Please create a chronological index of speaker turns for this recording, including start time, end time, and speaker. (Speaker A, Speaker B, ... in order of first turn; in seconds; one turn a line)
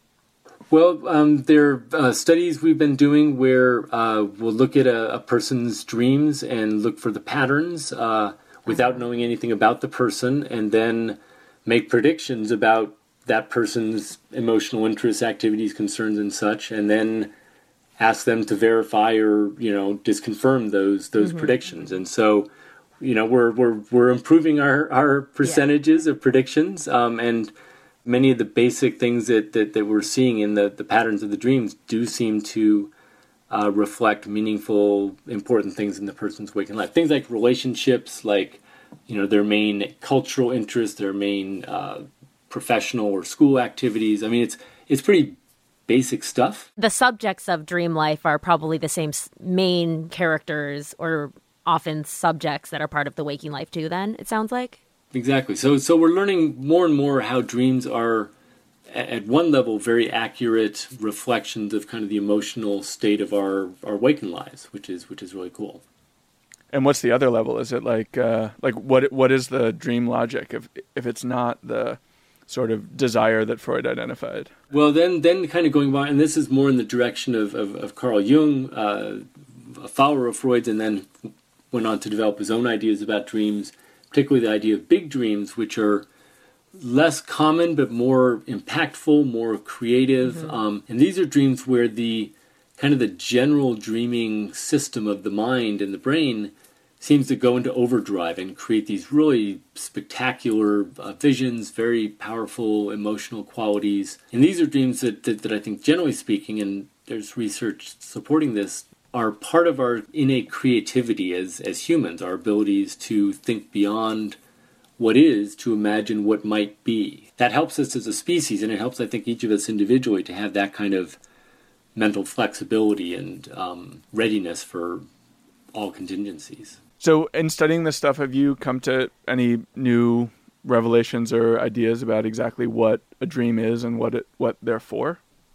Speaker A: 0.7-17.3
Speaker A: 18.0-22.5
Speaker B: 21.2-21.5
Speaker A: 23.0-27.5
Speaker A: 28.1-32.9
Speaker A: 33.5-45.4
Speaker A: 45.9-46.7
Speaker B: 46.8-54.8
Speaker A: 55.1-58.3
Speaker A: 58.9-65.8
Speaker C: 66.7-74.5
Speaker A: 74.7-81.1
Speaker A: 81.7-86.1
Speaker A: 86.8-114.4
Speaker A: 115.0-121.2
Speaker A: 122.0-125.0
Speaker A: 125.7-126.8
Speaker C: 127.0-135.2